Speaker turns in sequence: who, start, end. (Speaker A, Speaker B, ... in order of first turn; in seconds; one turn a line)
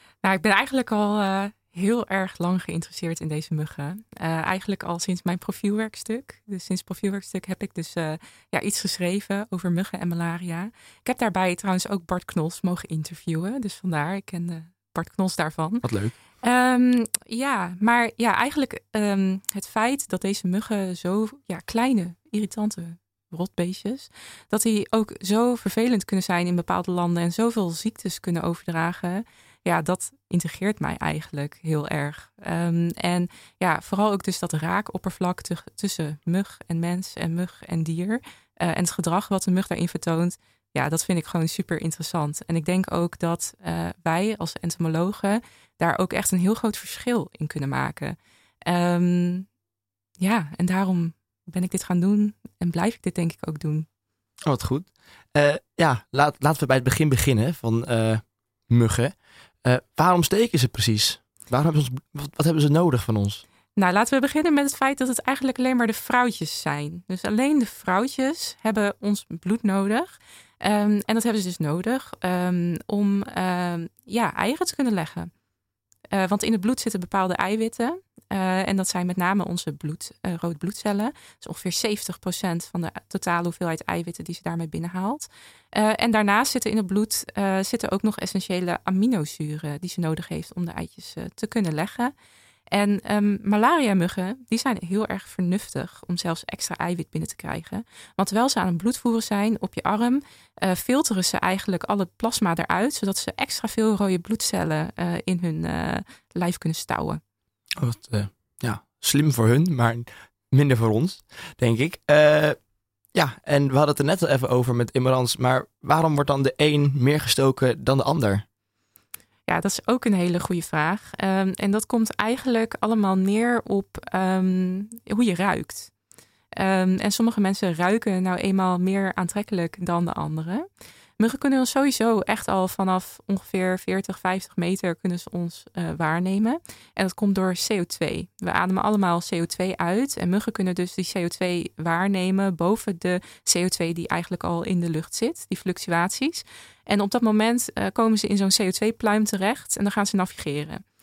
Speaker A: 0.2-15.9
Speaker B: 15.8-16.1
Speaker A: 16.4-49.5
Speaker A: 50.2-53.9
Speaker B: 54.5-63.4
Speaker A: 63.8-75.3
Speaker A: 76.1-92.1
Speaker A: 92.7-107.2
Speaker B: 107.8-112.6
Speaker B: 113.1-118.5
Speaker A: 119.5-125.9
Speaker A: 126.6-130.6
Speaker A: 131.2-150.8